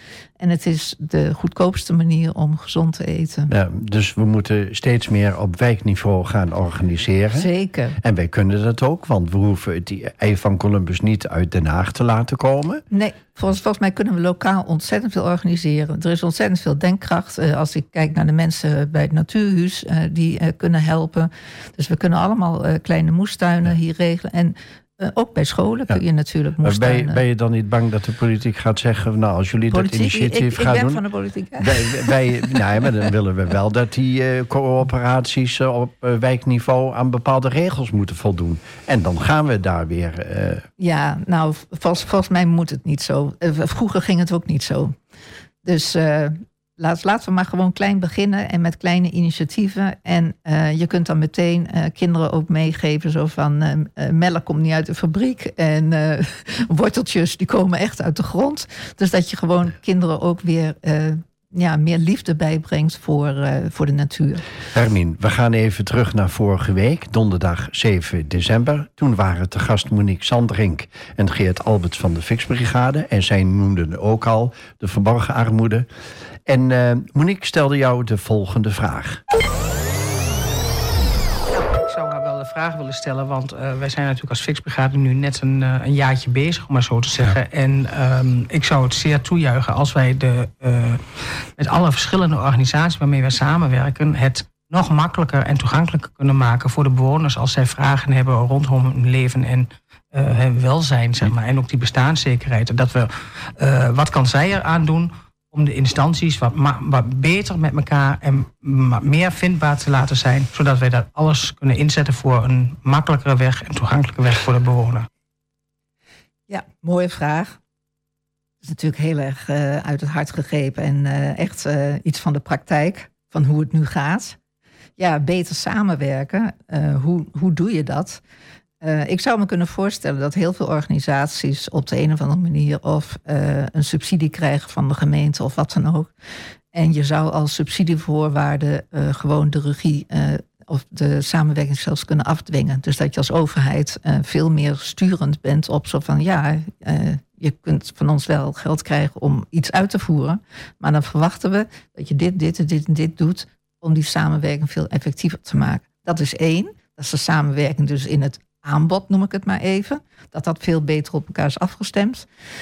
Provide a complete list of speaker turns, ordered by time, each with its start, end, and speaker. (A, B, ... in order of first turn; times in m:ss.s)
0:00.4-0:03.5 A
0:03.5-0:12.8 B
0:07.3-0:08.0 A
0:12.9-0:27.2 A
0:26.6-0:31.0 B
0:29.7-0:32.9 A
0:31.6-0:40.7 B
0:40.8-0:44.9 A
0:45.6-1:04.4 A
1:04.7-1:15.9 B
1:16.4-1:19.2 B
1:21.5-1:31.0 C
1:31.6-1:55.1 C
1:56.5-1:57.6 A
1:58.6-2:04.4 A
2:05.0-2:08.2 A
2:08.8-2:16.1 A
2:16.7-2:42.3 A